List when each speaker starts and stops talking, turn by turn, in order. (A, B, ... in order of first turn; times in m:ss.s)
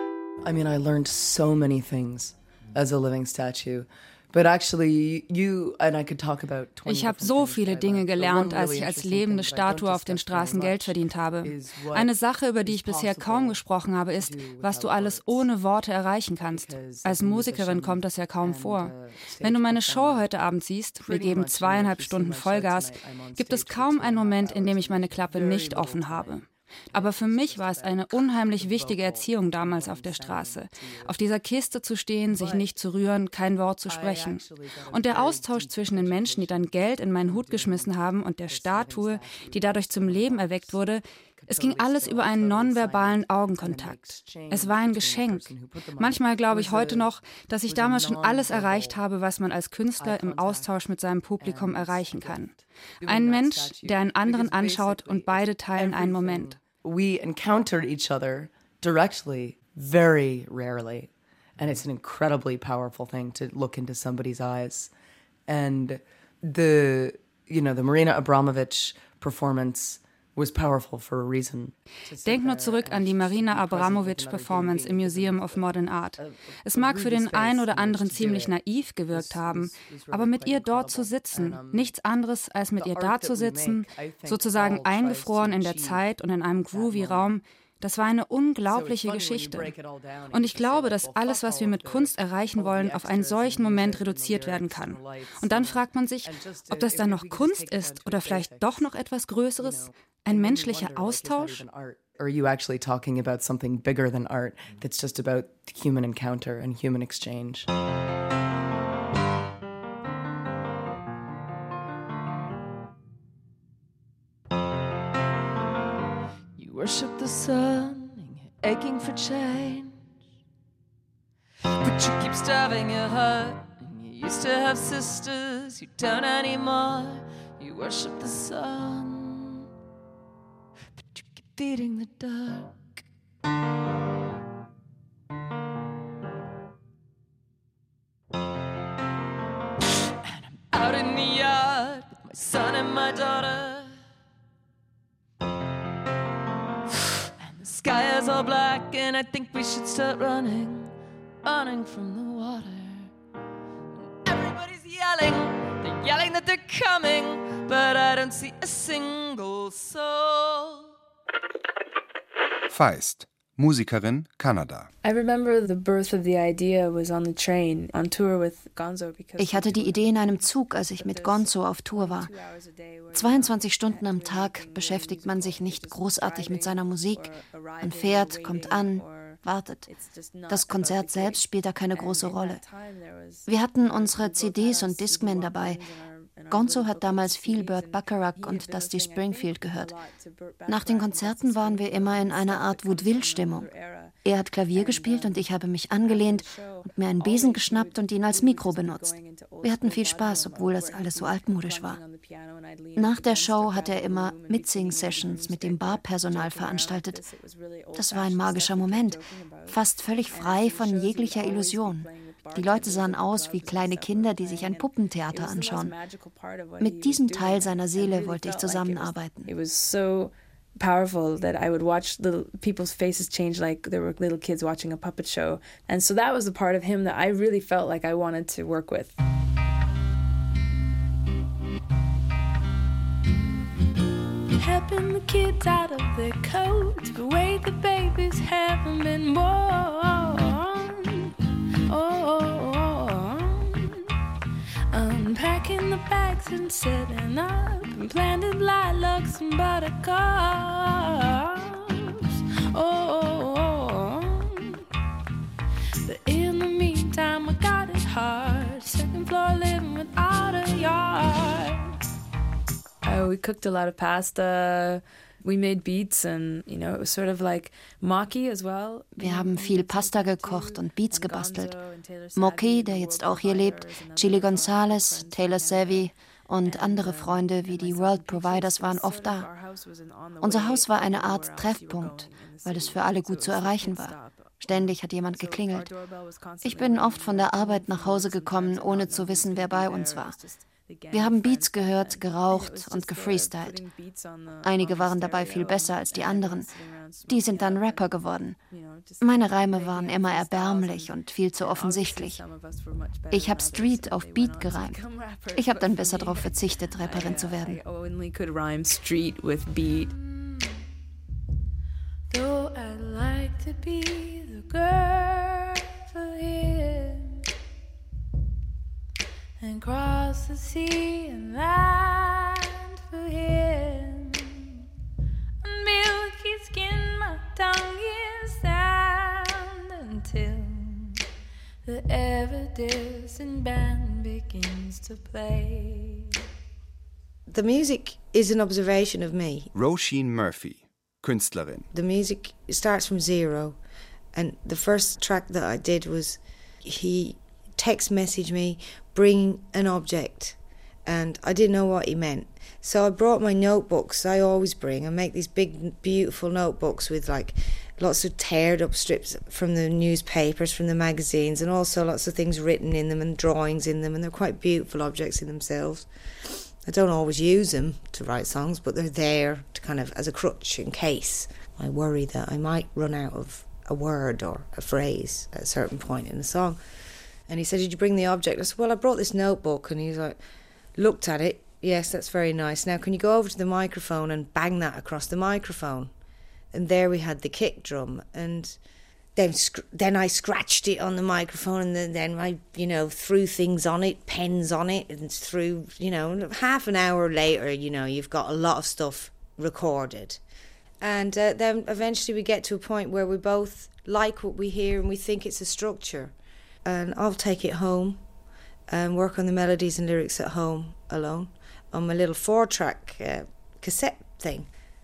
0:00.4-0:15.5 A
0:06.8-0:56.6 B
0:16.5-0:20.3 A
0:21.0-0:26.1 A
0:41.5-0:49.0 A
0:50.0-0:50.6 A
0:51.4-1:04.9 A
1:05.5-1:18.5 A
1:12.2-1:29.7 B
1:19.1-1:21.9 A
1:22.8-1:26.1 A
1:26.7-1:27.3 A
1:30.2-1:41.6 B
1:39.6-1:39.9 A
1:41.2-1:47.7 A
1:56.6-2:00.0 C
2:01.8-2:09.7 C
2:11.0-2:12.8 C
2:20.2-2:23.9 C
2:27.4-2:33.1 C
2:34.2-2:40.9 C
2:42.7-2:44.9 D
2:45.0-2:49.8 E
2:49.4-2:52.3 F
2:53.1-2:59.9 F
3:00.5-3:02.6 F
3:03.4-3:05.8 F
3:06.5-3:09.9 F
3:10.6-3:13.7 F
3:14.2-3:22.0 F
3:23.0-3:27.2 F
3:27.9-3:35.9 F
3:36.8-3:39.5 F
3:39.4-3:49.2 E
3:54.6-4:01.3 G
4:01.9-4:03.8 G
4:04.9-4:11.8 G
4:12.7-4:14.5 G
4:16.1-4:21.8 G
4:23.0-4:29.4 E
4:29.2-4:31.8 F
4:32.3-4:39.5 F
4:40.4-4:45.9 F
4:46.6-4:50.3 F
4:51.1-4:53.8 F
4:54.6-4:56.7 F
4:57.2-4:58.6 F
4:59.2-5:02.4 F
5:03.3-5:07.8 F
5:08.1-5:10.1 E
5:12.3-5:17.2 G
5:19.6-5:24.1 G
5:25.7-5:26.6 G
5:27.7-5:29.5 G
5:30.0-5:30.6 G
5:32.6-5:33.9 G
5:37.5-5:39.7 H
5:39.7-5:41.8 D
5:41.9-5:43.8 H
5:44.3-6:06.1 H
6:06.8-6:16.8 H
6:17.5-6:20.4 H
6:21.0-6:26.1 H
6:26.7-6:28.8 H
6:29.3-6:40.4 H
6:41.0-6:46.3 H
6:46.8-6:48.2 H
6:48.9-6:54.7 H